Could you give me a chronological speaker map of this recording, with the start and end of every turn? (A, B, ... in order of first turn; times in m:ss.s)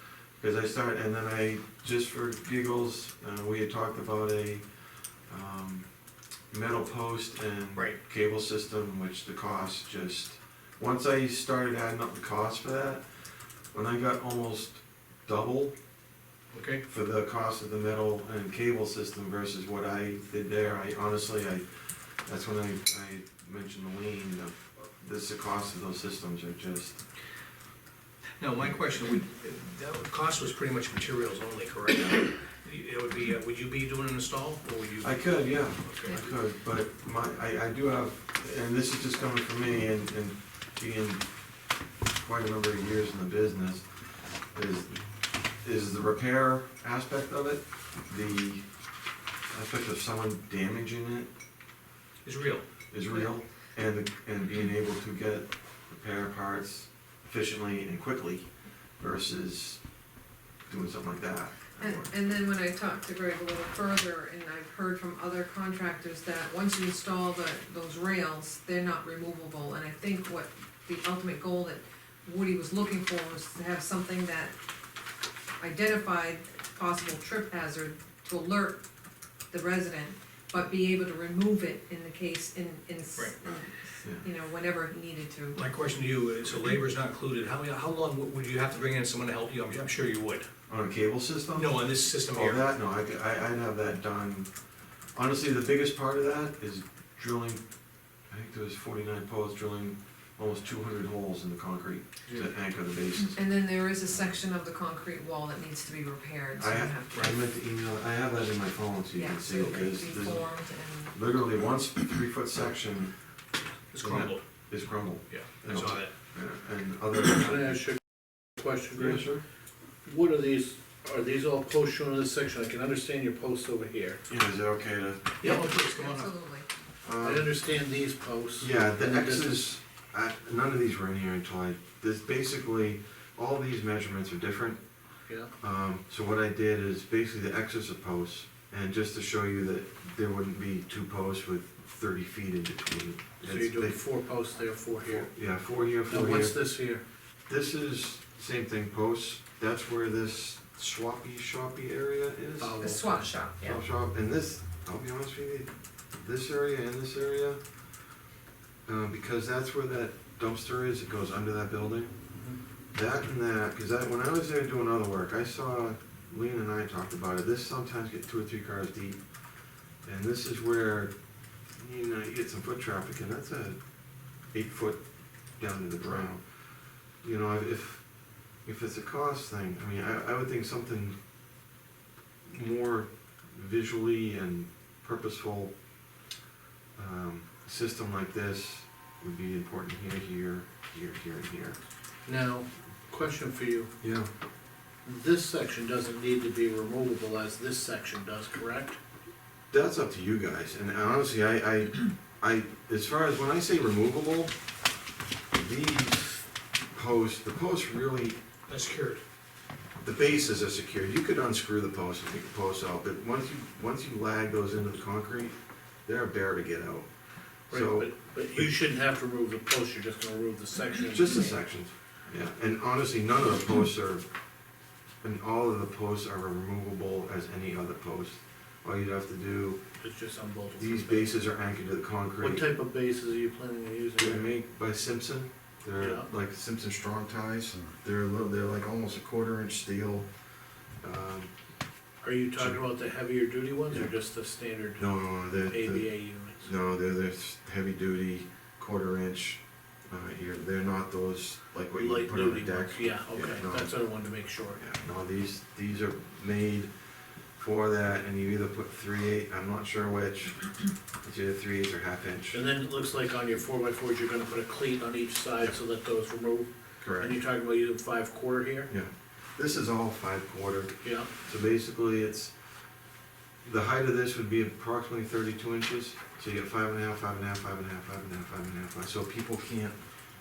0:00.4-0:04.6 A
0:05.3-0:05.9 A
0:06.5-0:13.0 A
0:13.7-0:15.8 A
0:16.5-0:16.8 B
0:16.8-0:27.0 A
0:28.4-0:36.1 C
0:35.0-0:41.5 A
0:42.1-0:48.6 A
0:49.5-0:51.3 A
0:52.2-0:52.6 C
0:52.9-0:59.8 A
1:00.7-1:02.1 A
1:01.8-1:14.6 D
1:15.6-1:18.8 D
1:19.5-1:25.6 D
1:25.5-1:30.5 C
1:30.7-1:34.5 A
1:31.5-1:32.6 C
1:35.1-1:37.6 A
1:38.2-1:43.5 A
1:43.2-1:47.2 D
1:46.6-1:53.2 A
1:49.1-1:51.2 D
1:53.9-1:54.4 C
1:54.0-1:57.7 A
1:55.3-1:56.1 C
1:57.3-1:59.2 B
1:59.0-1:59.4 A
2:00.0-2:04.2 B
2:04.3-2:05.7 A
2:05.4-2:06.4 C
2:05.4-2:06.6 D
2:07.0-2:07.5 A
2:07.2-2:09.6 B
2:08.6-2:14.8 A
2:15.3-2:15.5 B
2:15.5-2:24.0 A
2:23.4-2:25.3 B
2:25.1-2:26.7 A
2:26.1-2:27.0 B
2:27.5-2:37.6 A
2:32.6-2:33.1 B
2:32.8-2:33.8 D
2:38.8-2:42.3 A
2:42.3-2:42.6 B
2:42.9-2:49.2 A
2:50.0-2:51.1 A
2:51.7-2:53.8 A
2:54.5-2:56.4 A
2:57.2-3:01.2 A
3:02.4-3:05.7 A
3:06.9-3:11.8 A
3:12.2-3:13.9 B
3:14.0-3:14.3 A
3:15.0-3:19.0 B
3:19.7-3:24.5 A
3:25.5-3:28.4 A
3:28.7-3:29.2 C
3:30.0-3:37.1 A
3:37.7-3:38.7 A
3:37.7-3:41.6 B
3:41.0-3:44.3 A
3:45.2-3:49.8 A
3:50.0-3:51.4 B
3:50.8-3:52.6 A
3:52.4-3:54.5 B
3:54.2-4:00.3 A
3:56.0-3:56.3 B
4:01.0-4:01.5 A
4:02.2-4:06.7 B
4:03.9-4:04.1 A
4:05.0-4:13.9 A
4:11.9-4:14.8 B
4:14.7-4:16.9 A
4:17.5-4:22.6 A
4:22.5-4:28.9 B
4:27.0-4:27.3 A
4:28.9-4:32.5 A
4:31.0-4:31.3 B
4:33.6-4:40.0 A